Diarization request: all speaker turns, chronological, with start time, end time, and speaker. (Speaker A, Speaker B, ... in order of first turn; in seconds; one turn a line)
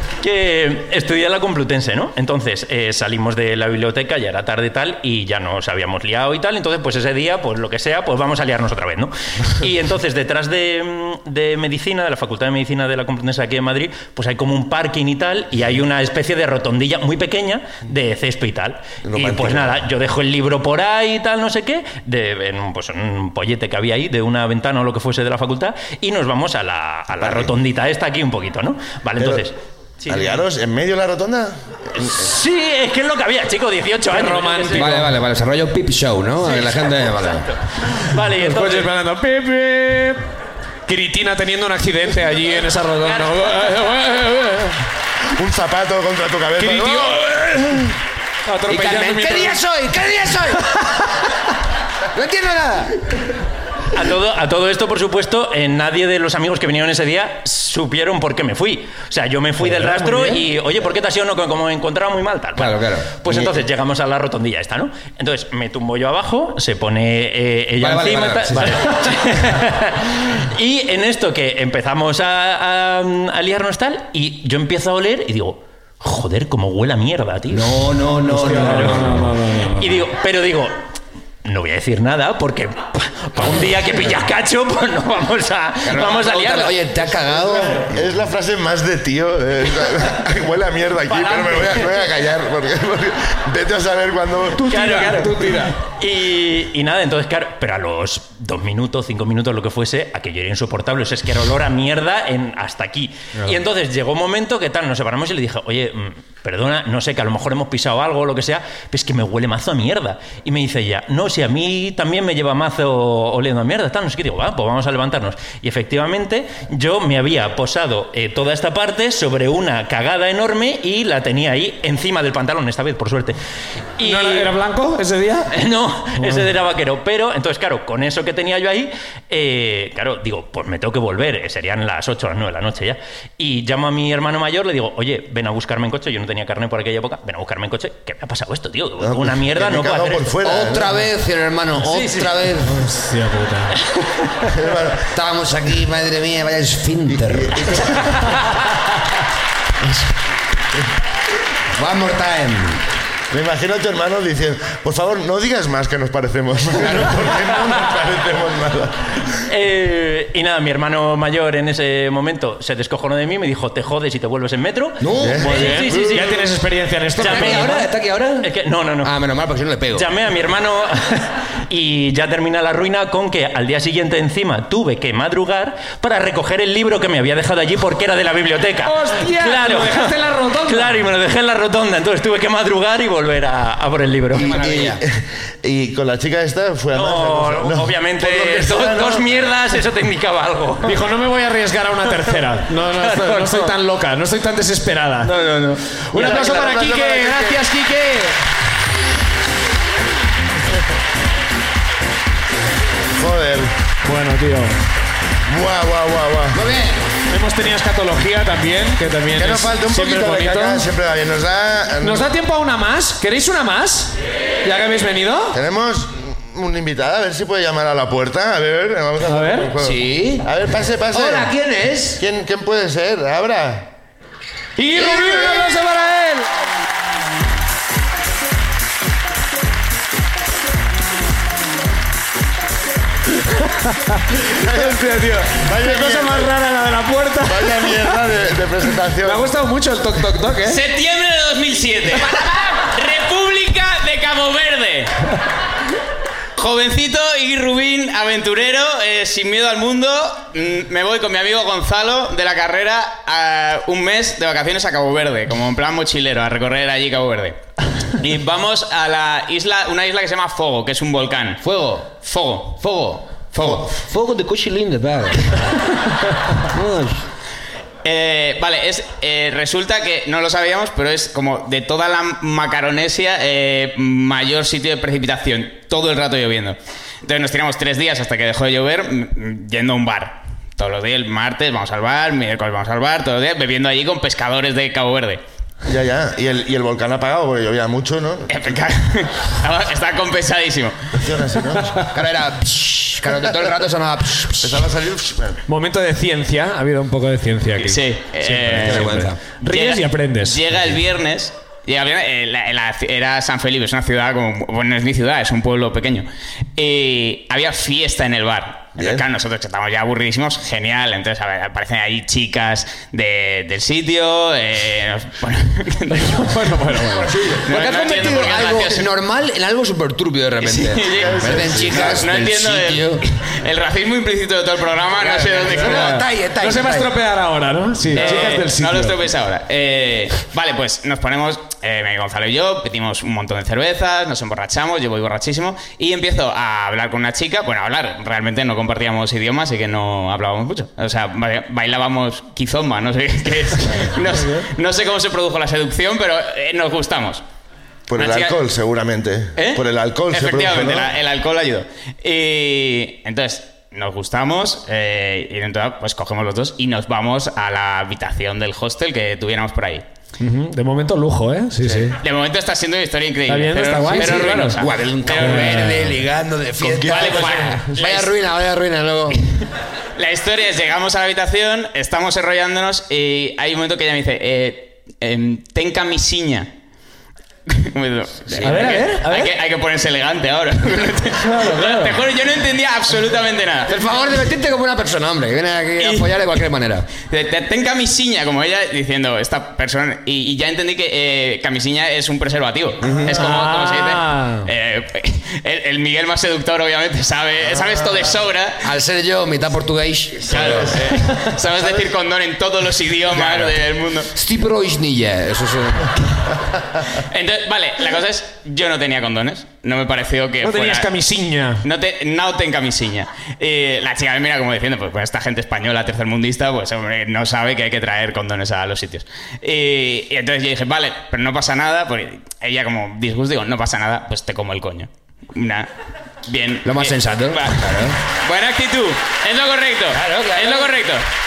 Speaker A: 0.2-30.4
Speaker B: 19.0-19.8
Speaker B: 27.2-27.5
Speaker B: 29.2-29.4
Speaker B: 30.1-32.3
Speaker A: 31.9-35.0
Speaker C: 34.1-35.1
Speaker D: 34.7-37.5
Speaker A: 36.4-38.9
Speaker C: 38.3-40.2
Speaker C: 40.9-44.8
Speaker A: 43.0-43.4
Speaker B: 45.4-47.2
Speaker C: 46.6-47.9
Speaker C: 48.5-49.6
Speaker D: 48.7-51.2
Speaker D: 52.1-53.0
Speaker A: 53.9-78.0
Speaker D: 59.6-60.5
Speaker D: 62.6-63.1
Speaker D: 67.8-69.4
Speaker D: 77.5-79.3
Speaker C: 78.3-80.0
Speaker A: 78.6-80.7
Speaker A: 81.5-86.8
Speaker D: 85.9-87.9
Speaker B: 86.0-86.4
Speaker B: 87.1-94.7
Speaker A: 91.1-92.1
Speaker C: 94.5-95.8
Speaker A: 94.7-123.4
Speaker A: 124.0-124.5
Speaker C: 124.0-125.5
Speaker A: 125.5-140.4
Speaker B: 139.0-141.0
Speaker D: 140.4-142.8
Speaker A: 141.8-142.5
Speaker C: 142.7-143.7
Speaker A: 143.8-144.5
Speaker B: 144.5-145.1
Speaker D: 145.1-148.0
Speaker B: 147.1-148.4
Speaker D: 151.7-152.9
Speaker B: 153.3-159.3
Speaker A: 159.5-169.2
Speaker D: 165.0-165.9
Speaker B: 165.1-166.2
Speaker C: 165.4-167.9
Speaker D: 167.2-170.1
Speaker A: 169.9-184.9
Speaker C: 178.8-181.1
Speaker B: 184.3-189.4
Speaker D: 184.4-185.0
Speaker A: 186.9-191.1
Speaker C: 190.8-195.3
Speaker A: 192.9-193.7
Speaker A: 195.3-196.7
Speaker B: 195.4-197.6
Speaker C: 196.1-198.3
Speaker B: 203.1-203.7
Speaker C: 204.0-204.8
Speaker B: 205.5-206.6
Speaker D: 206.5-207.1
Speaker C: 207.3-210.9
Speaker B: 209.3-212.3
Speaker C: 212.0-215.6
Speaker B: 215.5-221.5
Speaker C: 219.3-219.7
Speaker D: 219.8-220.5
Speaker D: 221.1-222.2
Speaker B: 222.2-223.9
Speaker C: 224.8-226.5
Speaker B: 225.0-225.7
Speaker D: 225.0-225.4
Speaker C: 233.5-238.2
Speaker B: 234.6-236.5
Speaker B: 237.4-239.5
Speaker C: 239.2-240.8
Speaker E: 240.6-245.1
Speaker E: 246.6-257.6
Speaker E: 258.2-264.0
Speaker D: 261.6-262.1
Speaker D: 263.5-265.6
Speaker D: 266.6-267.2
Speaker E: 268.0-285.4
Speaker B: 285.8-288.8
Speaker E: 288.5-290.9
Speaker B: 291.2-292.1
Speaker D: 292.0-294.9
Speaker B: 294.6-295.6
Speaker C: 295.7-298.0
Speaker E: 297.8-316.6
Speaker D: 298.4-299.4
Speaker C: 299.6-300.6
Speaker B: 308.9-309.2
Speaker C: 316.1-317.3
Speaker B: 317.3-317.6
Speaker E: 317.6-319.1
Speaker D: 317.6-323.3
Speaker E: 320.6-326.2
Speaker B: 321.2-322.3
Speaker D: 325.2-327.1
Speaker C: 325.7-329.2
Speaker D: 328.1-328.5
Speaker E: 328.1-347.4
Speaker B: 348.1-351.1
Speaker E: 348.2-348.6
Speaker E: 349.6-360.1
Speaker C: 360.4-362.2
Speaker D: 361.8-362.1
Speaker E: 362.2-366.1
Speaker C: 363.5-364.8
Speaker D: 364.1-369.4
Speaker C: 365.4-366.1
Speaker B: 366.8-368.0
Speaker E: 367.1-368.3
Speaker E: 370.2-376.7
Speaker E: 377.7-383.9
Speaker D: 378.5-379.2
Speaker C: 378.6-379.5
Speaker C: 381.4-382.2
Speaker D: 383.9-387.1
Speaker E: 386.0-386.3
Speaker E: 387.3-398.9
Speaker D: 393.0-393.4
Speaker C: 393.3-394.7
Speaker D: 398.8-401.3
Speaker E: 400.5-404.3
Speaker B: 400.5-401.5
Speaker D: 404.3-406.1
Speaker E: 407.3-411.1
Speaker C: 410.6-411.8
Speaker E: 411.8-425.9
Speaker E: 426.4-431.2
Speaker D: 426.8-428.2
Speaker D: 430.1-430.9